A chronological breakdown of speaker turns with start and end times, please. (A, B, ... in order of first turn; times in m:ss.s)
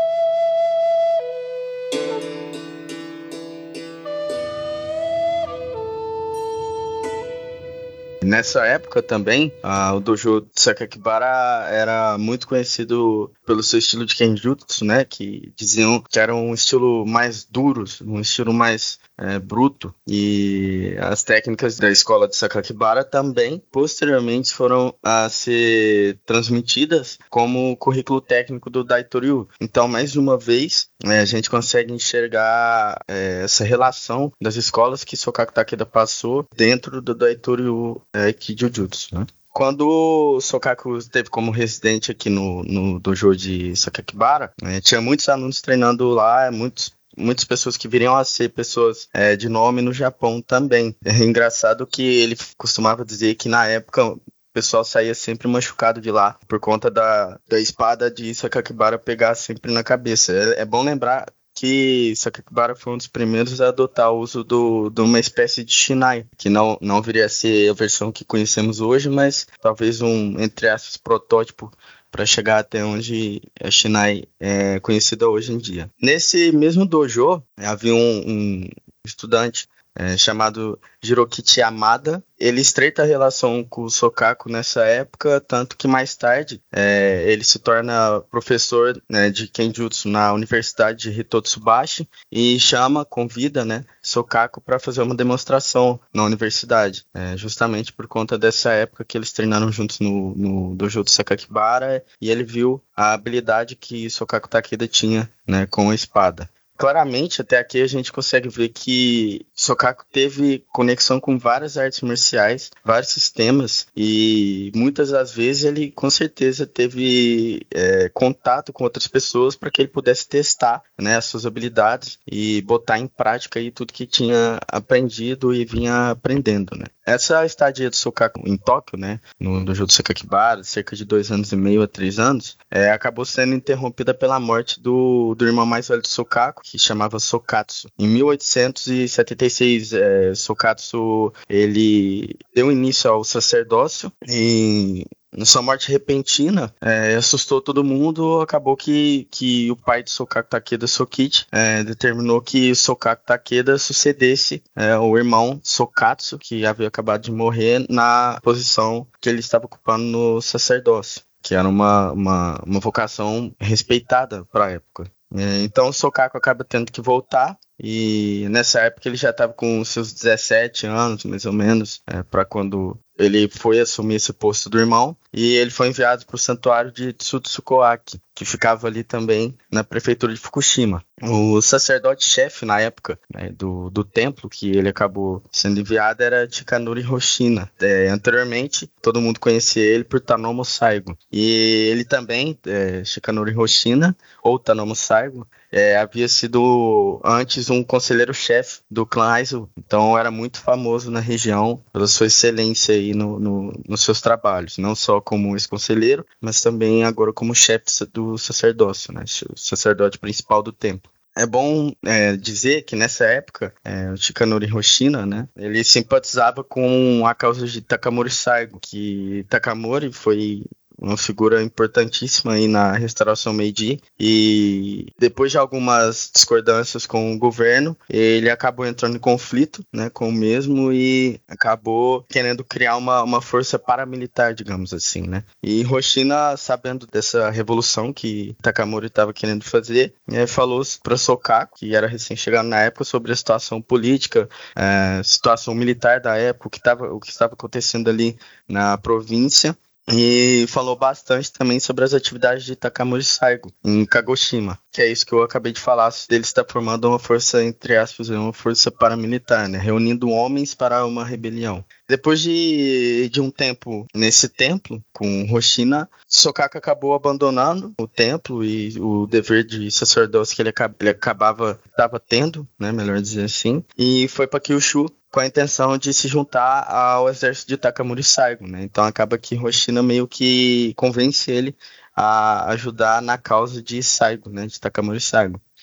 0:08.2-4:45.6 A